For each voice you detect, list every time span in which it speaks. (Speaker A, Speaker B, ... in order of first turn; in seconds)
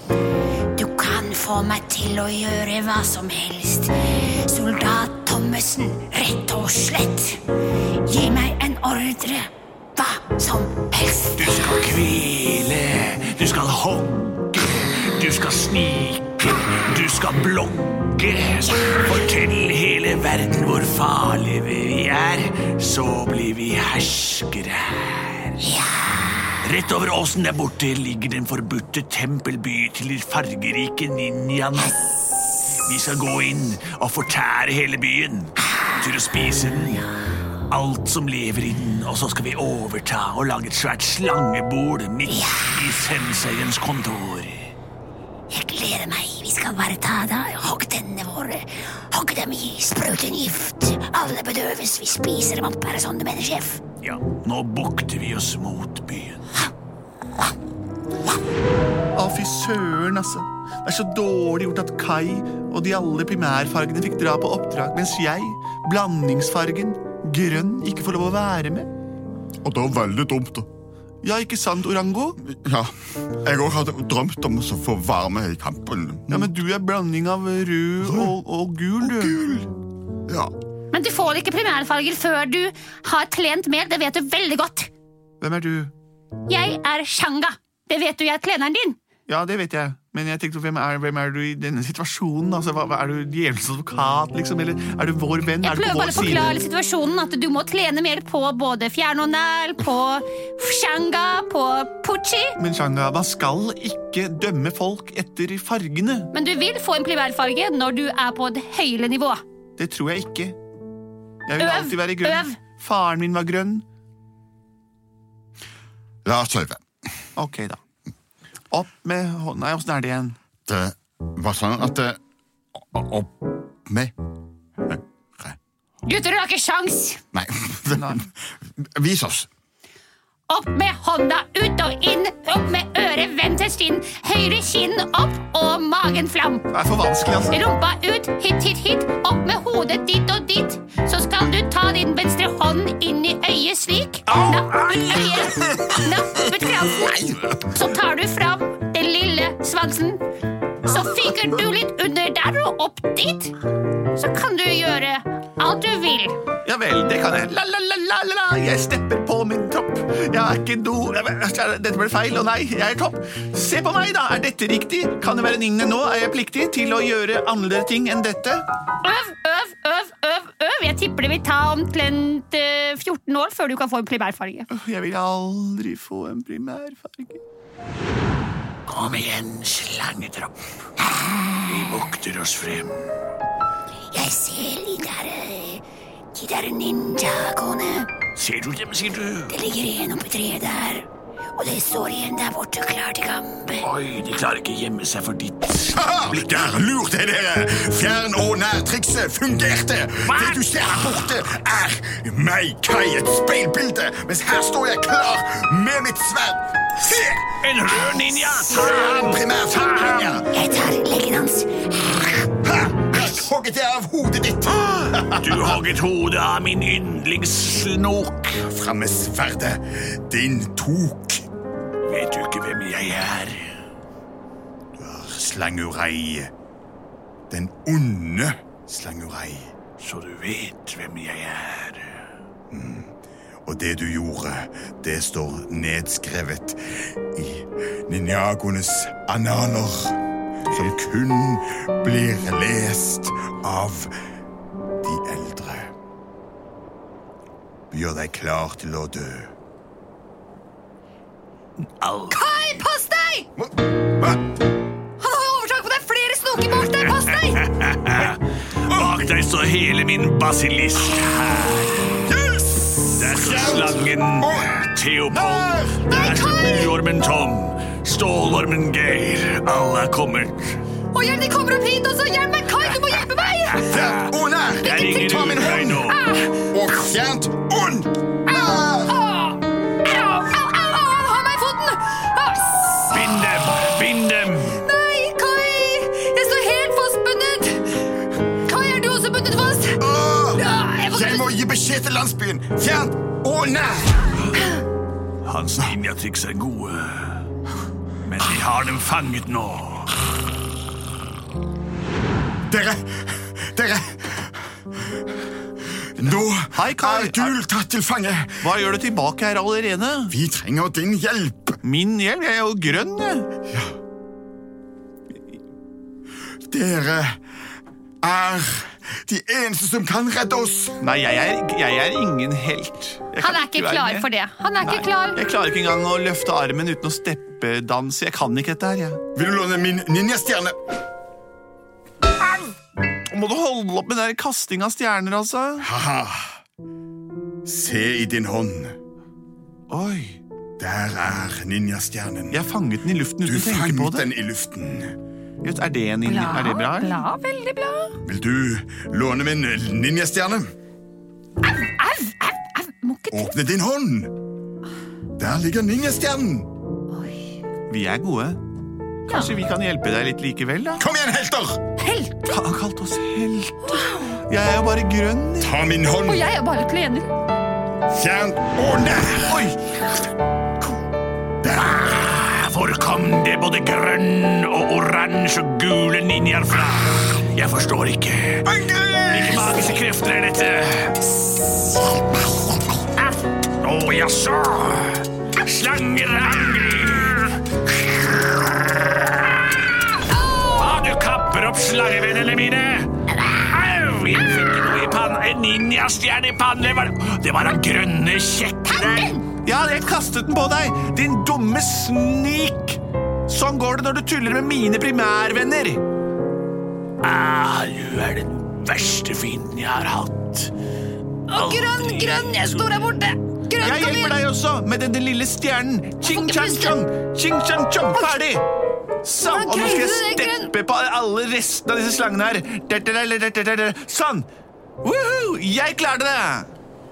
Speaker A: 0.8-7.2, 8.8-9.1, 10.0-11.6, 45.5-53.8, 184.1-185.8, 186.3-188.1, 189.5-193.9, 210.5-212.5
Speaker B: 8.2-9.4, 10.9-11.4, 80.9-84.9, 86.5-89.0, 95.6-102.5, 106.3-109.4, 111.6-112.6, 126.0-127.2, 130.5-136.7, 137.5-150.2, 150.8-153.5, 154.1-156.4, 169.0-174.7, 252.3-253.5, 255.2-257.7, 266.1-266.9, 271.1-273.9, 276.1-276.6, 278.5-283.3, 284.7-288.1, 288.6-290.0, 290.6-291.5, 323.4-325.4, 346.2-348.1, 351.6-353.5, 357.1-357.6, 359.3-359.5, 362.0-362.5, 363.9-364.4, 366.3-367.3, 381.4-382.7, 398.9-399.4, 411.5-414.4, 416.2-416.9, 419.4-420.7
Speaker C: 11.4-25.7, 26.6-32.1, 32.7-37.1, 37.7-44.7, 54.0-56.4, 178.9-180.5, 181.7-183.0, 188.3-189.5, 193.8-196.8, 200.2-201.2, 207.6-210.4, 214.7-218.6, 222.1-223.7, 230.0-232.2, 252.0-252.4, 256.7-262.2, 263.1-270.8, 272.8-276.2, 283.1-284.8, 295.4-297.5, 298.2-300.1, 371.8-378.7, 379.3-381.2, 383.6-387.6, 390.6-399.4, 407.2-410.7, 411.5-412.9
Speaker D: 59.1-68.9, 71.2-72.4, 76.3-79.4, 85.4-85.9, 89.3-96.6, 102.6-106.3, 109.8-110.6, 111.5-113.8, 117.3-117.8, 118.7-120.3, 127.9-128.2, 136.7-137.7, 156.6-168.7, 174.7-177.4, 306.2-307.5, 308.6-310.3, 311.8-313.5, 321.0-324.3, 324.8-329.2, 333.2-335.9, 339.9-340.4, 342.5-344.3, 345.6-347.2, 357.9-358.6, 359.2-361.0, 362.5-365.7, 399.4-406.0, 413.8-418.6, 419.2-424.5, 425.0-426.7
Speaker E: 69.6-70.7, 72.4-76.5, 78.0-78.3, 79.0-79.7, 80.3-80.5, 116.2-116.8, 120.7-122.2, 122.8-123.3, 123.8-124.1, 124.8-125.6, 127.3-129.5, 195.9-210.5, 212.6-215.8, 218.6-221.5, 225.0-226.5, 227.5-229.7, 232.7-233.1, 233.7-244.1, 245.0-245.9, 247.9-249.5, 253.6-254.4, 262.2-264.7, 265.3-266.0, 273.8-276.1, 276.6-279.2, 290.0-294.5, 302.6-304.8, 306.1-308.7, 310.3-311.8, 316.7-317.4, 318.2-321.0, 329.3-330.8, 335.8-336.6, 337.6-338.9, 340.8-342.6, 343.4-345.2, 348.2-350.7, 353.3-354.4, 355.4-356.7, 361.0-361.8, 365.6-366.5, 368.1-369.7, 371.6-372.1, 378.6-379.9